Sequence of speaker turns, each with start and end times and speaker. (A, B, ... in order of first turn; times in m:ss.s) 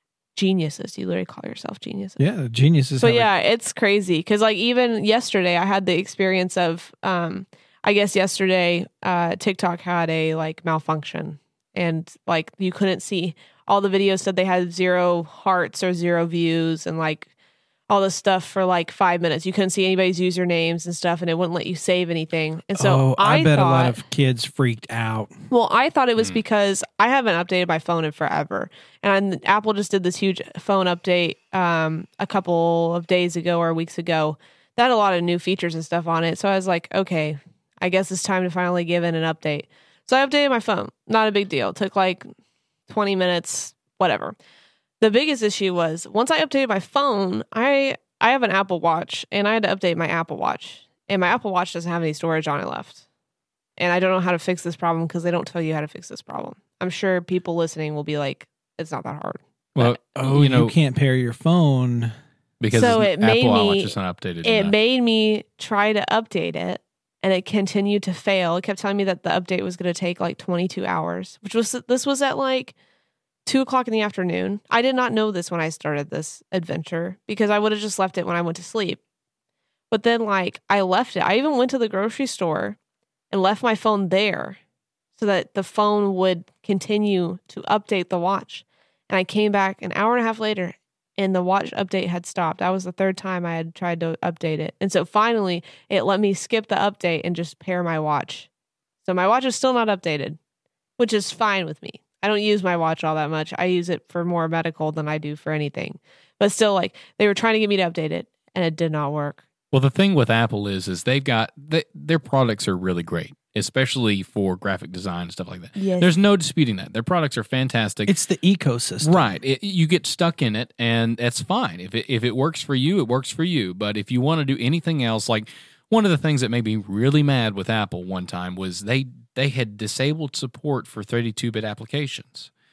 0:00.4-0:02.2 A
0:02.2-0:03.3 B
0:03.0-0:17.3 A
0:17.9-0:24.0 A
0:22.8-0:25.3 B
0:25.5-0:42.3 A
0:42.9-0:44.4 A
0:45.0-0:53.0 A
0:53.8-1:00.0 A
0:59.8-1:00.8 C
1:00.2-1:02.1 B
1:02.6-1:04.7 C
1:02.7-1:12.8 A
1:13.5-1:19.0 A
1:19.9-1:22.8 A
1:23.3-1:24.6 A
1:25.2-1:38.5 A
1:39.0-1:40.4 A
1:41.0-1:49.4 A
1:49.7-1:58.1 C
1:55.8-1:56.2 A
1:58.1-1:59.4 B
1:59.0-2:12.5 C